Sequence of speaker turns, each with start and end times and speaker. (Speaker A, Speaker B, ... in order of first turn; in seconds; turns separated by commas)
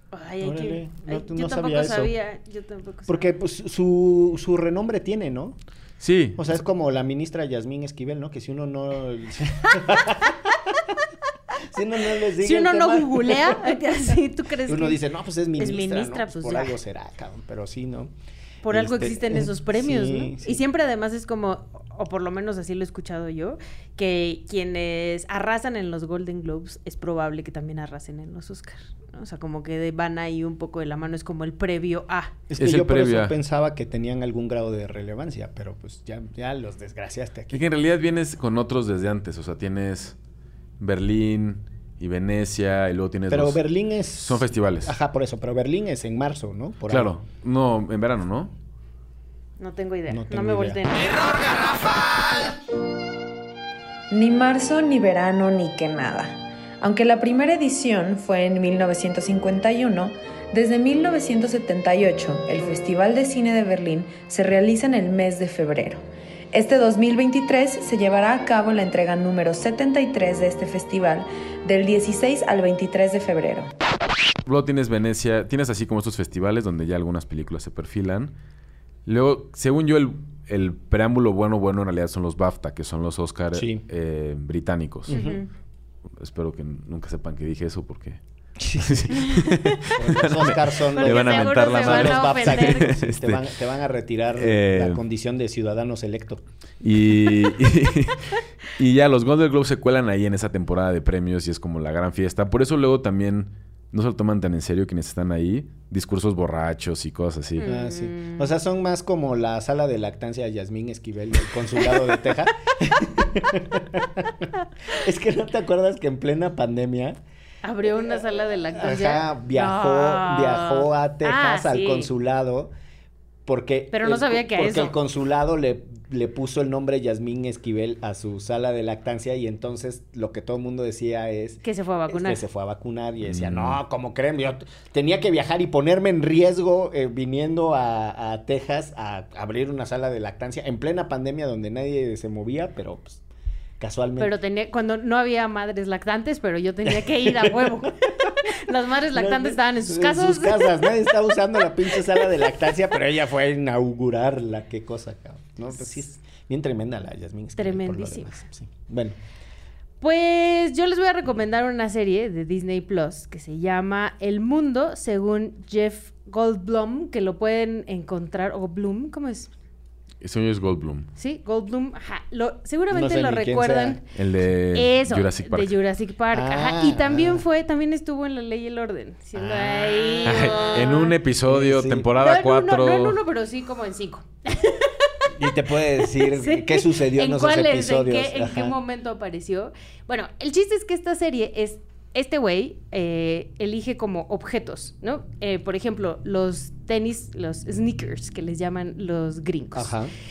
Speaker A: 0.1-3.3, Speaker B: 0.4-2.1, Speaker B: 3.1-5.6, Speaker C: 6.0-6.4, Speaker B: 6.4-10.5, Speaker B: 11.7-13.8, Speaker A: 12.4-15.0, Speaker B: 14.7-18.1, Speaker A: 15.6-16.8, Speaker A: 18.6-32.3, Speaker B: 18.7-20.6, Speaker B: 32.5-37.6, Speaker C: 32.6-33.4, Speaker C: 37.5-40.1, Speaker C: 40.8-43.6, Speaker B: 43.3-47.1, Speaker C: 44.1-45.0, Speaker C: 46.9-48.5, Speaker A: 49.6-51.3, Speaker B: 50.1-50.8, Speaker D: 54.1-73.7, Speaker C: 74.5-78.3, Speaker C: 79.1-85.1, Speaker B: 83.5-83.8, Speaker B: 85.1-85.4, Speaker A: 85.1-85.5, Speaker C: 86.2-88.2, Speaker B: 88.6-89.2, Speaker C: 88.8-93.4, Speaker A: 89.3-89.9, Speaker B: 90.0-96.4, Speaker A: 91.0-92.9, Speaker C: 94.4-95.0, Speaker C: 96.8-107.7, Speaker A: 107.6-108.5, Speaker B: 107.7-117.2, Speaker A: 117.6-122.1, Speaker B: 117.8-122.7, Speaker B: 123.5-143.2, Speaker A: 123.9-125.0, Speaker A: 131.6-132.4, Speaker C: 133.2-133.8, Speaker B: 143.8-144.3, Speaker A: 144.2-151.2, Speaker B: 146.9-148.5, Speaker B: 149.1-159.2, Speaker A: 157.6-158.4, Speaker A: 160.0-169.5, Speaker C: 170.2-171.1, Speaker A: 171.2-174.0, Speaker B: 172.9-174.0, Speaker C: 174.2-175.8, Speaker A: 174.7-181.1, Speaker B: 176.3-177.4, Speaker B: 179.3-180.5, Speaker C: 180.2-183.2, Speaker B: 181.4-182.1, Speaker A: 182.2-185.3, Speaker B: 185.3-188.8, Speaker A: 186.0-199.9, Speaker B: 199.7-200.1